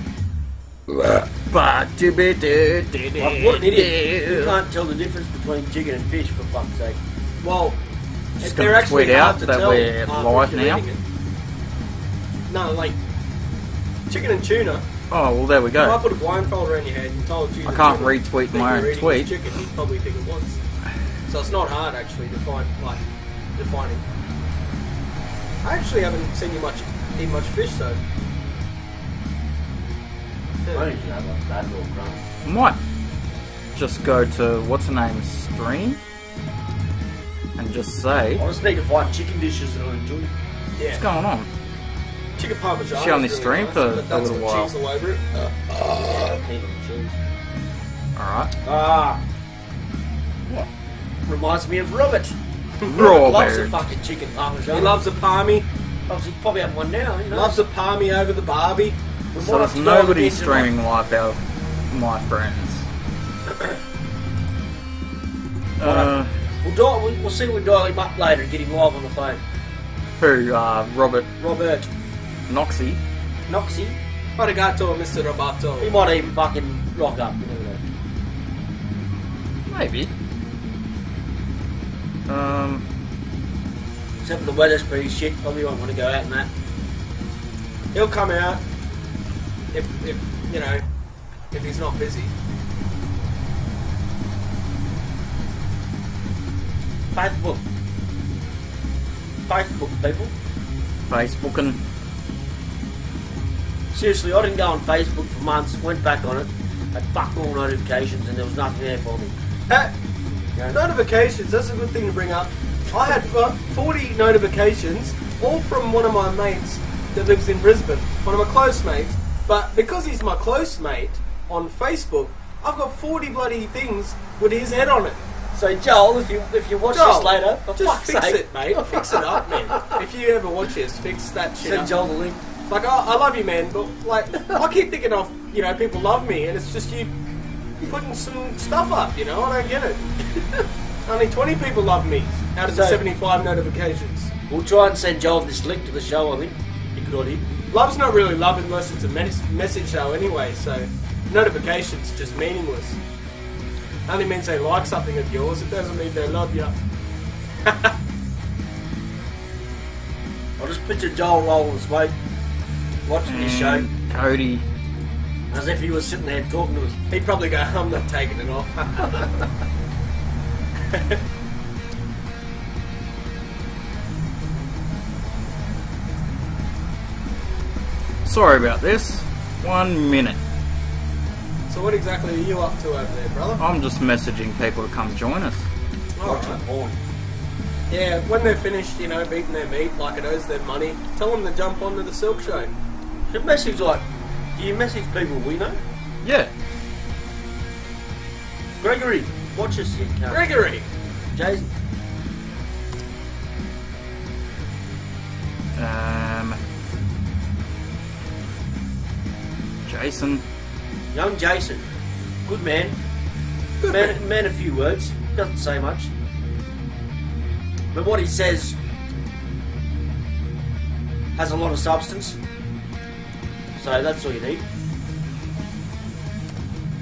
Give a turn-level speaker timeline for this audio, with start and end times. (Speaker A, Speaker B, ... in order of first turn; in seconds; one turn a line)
Speaker A: 0.9-4.5
Speaker B: 3.2-3.9
Speaker C: 3.2-7.0
Speaker B: 7.4-7.8
Speaker A: 8.4-10.8
Speaker B: 8.4-11.0
Speaker B: 12.5-12.9
Speaker B: 14.1-14.8
Speaker A: 15.1-16.0
Speaker B: 15.8-20.6
Speaker A: 17.6-19.4
Speaker B: 21.3-23.0
Speaker B: 23.6-24.0
Speaker B: 25.6-28.0
Speaker C: 30.7-32.2
Speaker A: 32.4-32.8
Speaker A: 33.7-36.0
Speaker A: 37.6-38.4
Speaker C: 38.4-40.3
Speaker A: 40.9-41.5
Speaker B: 42.4-46.3
Speaker A: 42.9-44.7
Speaker C: 45.9-47.2
Speaker A: 48.1-48.5
Speaker C: 48.6-49.2
Speaker C: 51.3-52.4
Speaker A: 52.8-53.8
Speaker C: 52.9-55.0
Speaker B: 54.7-55.6
Speaker C: 56.1-57.6
Speaker B: 57.3-59.0
Speaker C: 59.3-60.3
Speaker A: 59.4-62.9
Speaker B: 59.8-60.7
Speaker A: 65.8-66.3
Speaker C: 65.8-66.1
Speaker C: 66.6-69.4
Speaker A: 70.2-71.3
Speaker C: 71.4-71.9
Speaker A: 72.5-73.0
Speaker C: 73.5-74.0
Speaker B: 74.4-75.9
Speaker C: 75.8-77.9
Speaker A: 79.7-80.1
Speaker A: 82.3-82.8
Speaker C: 84.2-86.5
Speaker B: 87.9-88.6
Speaker B: 89.7-90.8
Speaker B: 91.5-92.3
Speaker C: 97.1-97.6
Speaker C: 99.5-100.3
Speaker A: 101.1-101.8
Speaker C: 103.9-109.3
Speaker B: 110.7-125.2
Speaker C: 125.5-130.0
Speaker B: 126.9-131.9
Speaker C: 131.6-132.4
Speaker B: 132.7-137.1
Speaker B: 137.8-144.3
Speaker C: 142.6-143.0
Speaker C: 144.5-147.4
Speaker B: 147.7-153.0
Speaker B: 154.1-156.7
Speaker B: 157.6-157.9
Speaker C: 160.6-162.1
Speaker C: 163.1-163.9
Speaker A: 163.3-164.6
Speaker C: 165.5-167.0
Speaker B: 167.1-169.5
Speaker B: 170.9-171.2
Speaker A: 178.2-180.4
Speaker B: 181.7-183.6
Speaker A: 183.6-185.7
Speaker B: 186.2-186.6
Speaker C: 186.2-186.9
Speaker B: 187.9-192.7
Speaker C: 193.3-194.0
Speaker C: 194.6-195.8
Speaker A: 196.2-196.5
Speaker C: 198.8-200.5
Speaker B: 200.3-200.8
Speaker C: 201.3-201.7
Speaker A: 205.8-206.6
Speaker A: 209.8-210.4
Speaker C: 211.1-211.8
Speaker C: 212.4-212.9
Speaker B: 213.8-214.2
Speaker C: 213.8-216.1
Speaker C: 217.9-218.8
Speaker C: 221.3-222.4
Speaker C: 223.8-224.6